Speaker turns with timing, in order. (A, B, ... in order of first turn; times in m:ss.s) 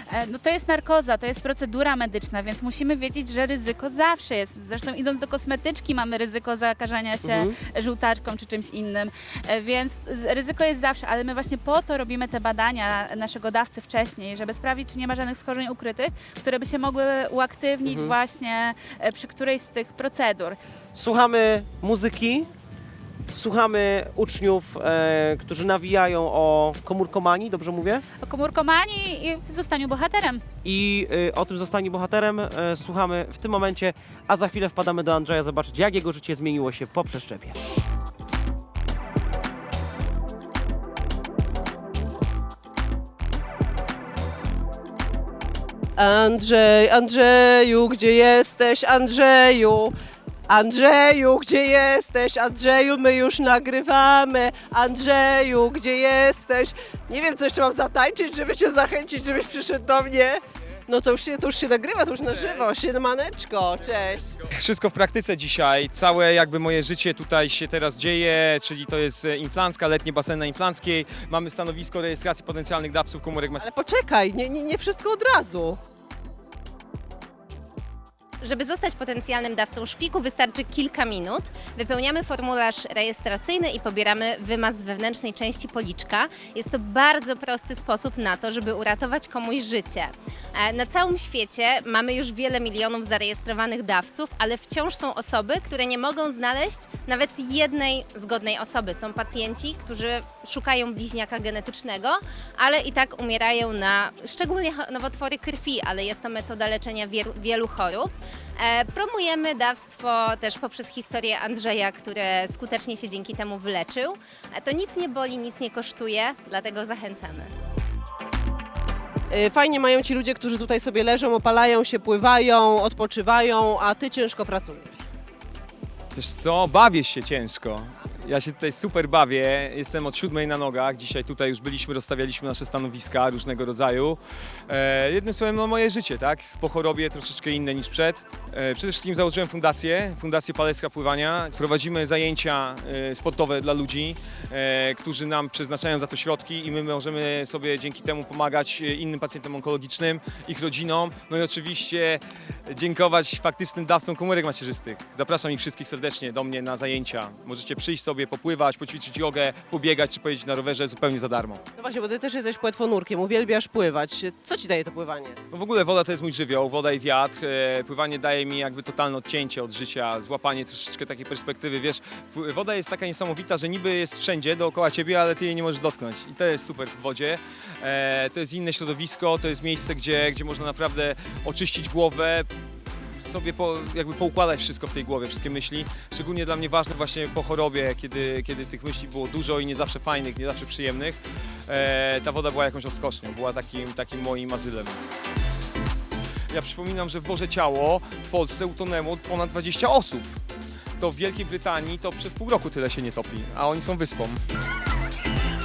0:00.1-0:20.6 A
0:07.2-0:07.5 B
0:17.8-0:18.1 B
0:20.9-0:22.5 B
0:23.3-0:28.0 B
0:28.2-0:30.4 A
0:30.6-0:37.6 B
0:46.0-0:49.9 C
0:50.5-1:04.4 C
1:04.4-1:13.6 D
1:13.6-1:15.8 C
1:18.4-1:57.5 E
1:59.3-2:04.9 C
2:06.1-2:41.6 D
2:41.8-2:45.4 C
2:45.5-3:15.0 D
3:16.5-3:20.4 D
3:21.0-3:24.4 D